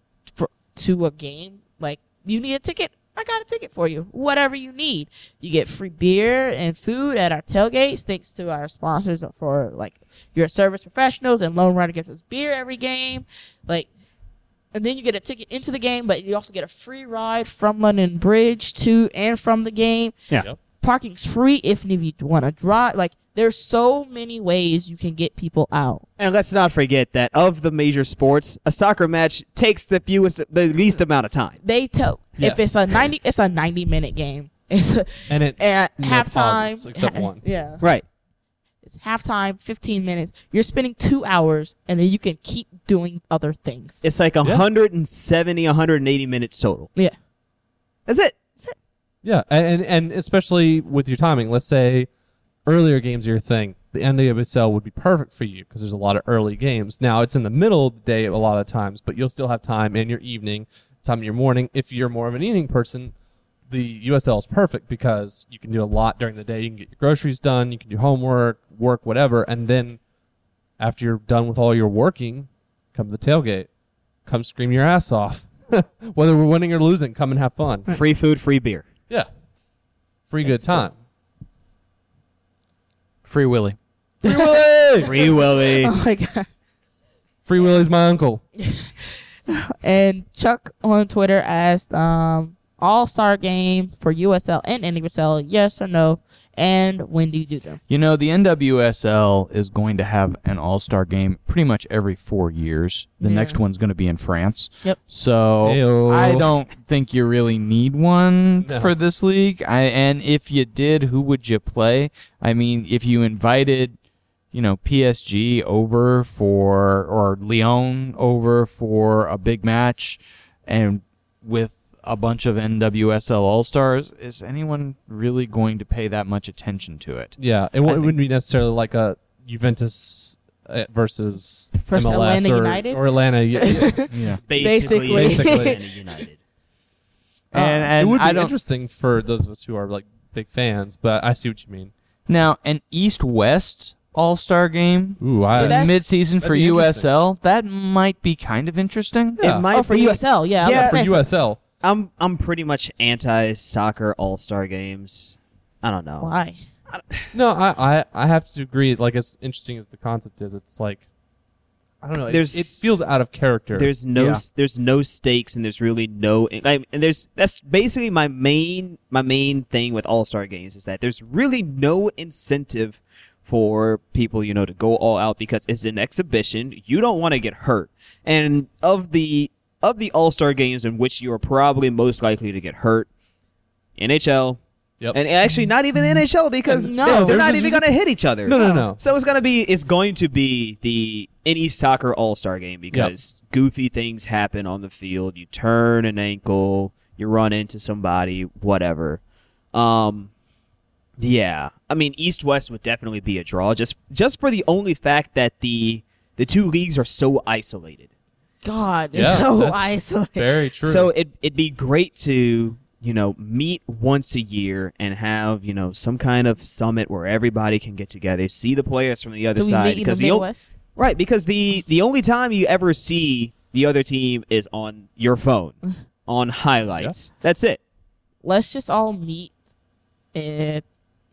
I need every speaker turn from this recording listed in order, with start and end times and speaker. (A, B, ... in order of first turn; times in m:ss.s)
0:00.3-0:13.9 A
0:14.7-0:20.2 A
0:20.8-0:26.0 A
0:26.2-0:31.6 B
0:31.6-0:37.8 A
0:32.4-0:32.8 C
0:35.3-0:37.4 C
0:38.8-0:44.0 A
0:44.0-0:46.9 B
0:48.1-0:48.3 B
0:49.2-0:52.1 C
0:52.6-1:03.1 C
1:03.7-1:10.0 C
1:10.8-1:13.7 C
1:14.2-1:18.0 C
1:17.9-1:18.8 B
1:20.3-1:21.0 C
1:23.2-1:23.8 D
1:24.2-1:26.5 A
1:24.2-1:25.9 B
1:27.4-1:28.4 C
1:28.6-1:28.9 A
1:29.5-1:37.8 A
1:37.9-1:54.0 D
1:43.2-1:43.6 A
1:45.6-1:46.5 C
1:48.6-1:48.9 C
1:54.5-2:08.1 D
2:07.4-2:14.2 C
2:11.9-2:13.0 A
2:13.5-2:15.8 A
2:14.1-2:14.4 D
2:14.5-2:16.4 B
2:14.8-2:15.8 C
2:17.5-2:18.5 D
2:17.5-2:17.9 A
2:18.0-2:21.9 C
2:22.3-2:29.4 D
2:25.2-2:27.1 C
2:25.6-2:26.0 A
2:29.4-2:29.6 C
2:29.4-2:31.0 B
2:29.7-2:31.3 A
2:30.6-2:31.6 C
2:31.8-2:36.3 B
2:36.2-2:36.6 A
2:37.3-2:41.0 C
2:42.0-2:43.9 C
2:42.3-2:42.8 B
2:43.7-3:03.1 B
2:44.1-2:44.4 D
3:04.0-3:04.6 B
3:05.1-3:19.2 B
3:06.7-3:07.4 A
3:06.7-3:07.9 C
3:08.4-3:09.0 C
3:08.6-3:08.8 A
3:19.7-3:20.3 B
3:21.2-3:28.1 B
3:28.6-3:30.5 A
3:29.1-3:31.1 C
3:30.8-3:47.8 B
3:39.6-3:40.7 A
3:48.4-3:49.6 A
3:50.3-3:50.8 A